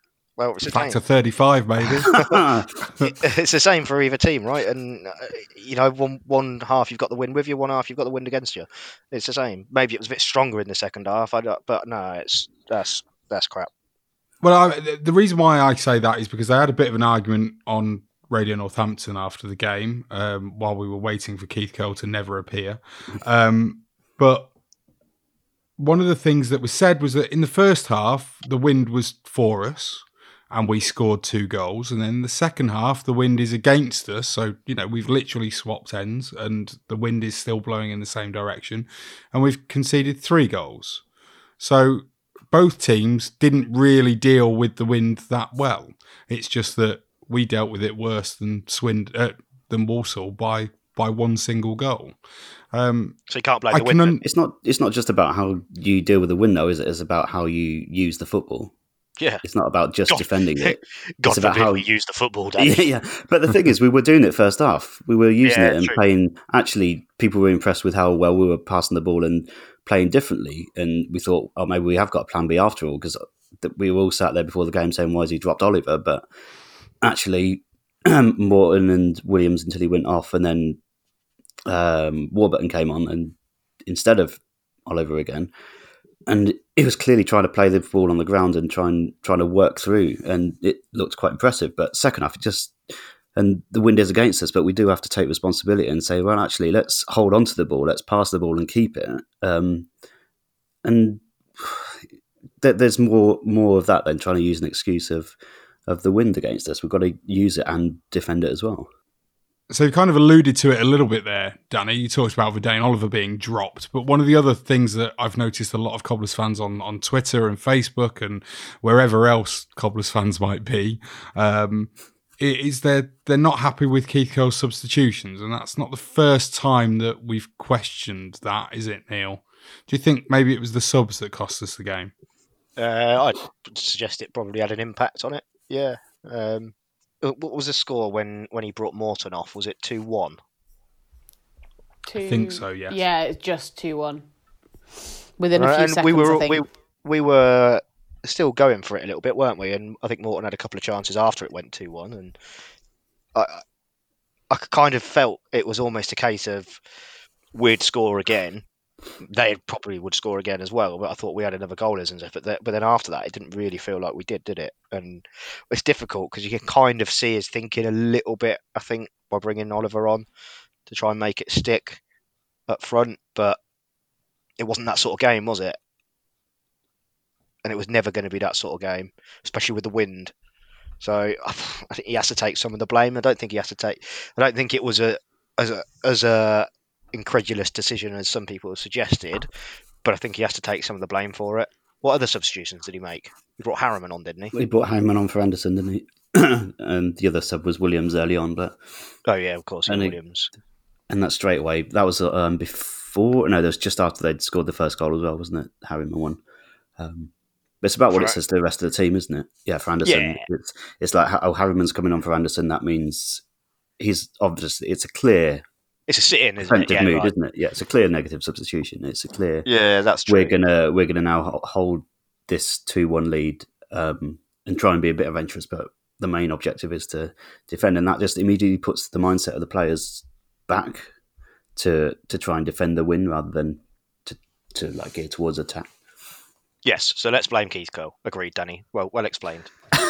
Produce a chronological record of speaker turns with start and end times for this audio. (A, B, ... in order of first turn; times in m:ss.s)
0:00.4-0:01.0 A
0:00.7-0:02.2 B
0:02.0-0:02.8 C
0:03.2-0:13.7 A
0:14.4-0:24.5 B
0:25.8-0:41.0 B
0:41.6-0:52.1 B
0:52.7-0:53.2 B
0:53.3-0:54.2 A
0:53.7-0:54.2 B
0:54.2-0:58.7 C
0:59.4-1:01.9 C
1:00.1-1:02.8 A
1:02.6-1:16.2 C
1:05.4-1:06.0 A
1:17.0-1:20.8 C
1:21.7-1:23.4 C
1:23.9-1:25.5 C
1:26.3-1:32.8 C
1:33.4-1:39.9 C
1:40.8-1:42.0 C
1:42.6-1:45.4 C
1:45.9-1:48.9 C
1:49.7-2:12.1 B
2:12.8-2:20.4 A
2:22.1-2:24.2 D
2:22.2-2:23.0 B
2:25.4-2:26.6 D
2:25.6-2:32.4 A
2:33.4-2:33.6 A
2:34.5-2:36.8 A
2:37.5-2:38.6 A
2:39.2-2:50.2 A
2:50.9-2:52.0 A
2:52.7-2:53.6 A
2:54.6-2:55.8 A
2:57.6-3:00.3 A
3:01.0-3:09.5 A
3:10.0-3:14.5 A
3:14.5-3:18.8 C
3:19.2-3:20.5 A
3:19.9-3:20.2 C
3:21.1-3:26.4 C
3:27.0-3:27.3 C
3:27.8-3:33.4 C
3:30.0-3:30.4 A
3:34.0-3:35.6 C
3:36.1-3:37.3 A
3:36.6-3:39.6 C
3:39.7-3:40.5 A
3:40.3-3:51.1 C
3:51.8-3:55.9 C
3:56.8-3:59.7 A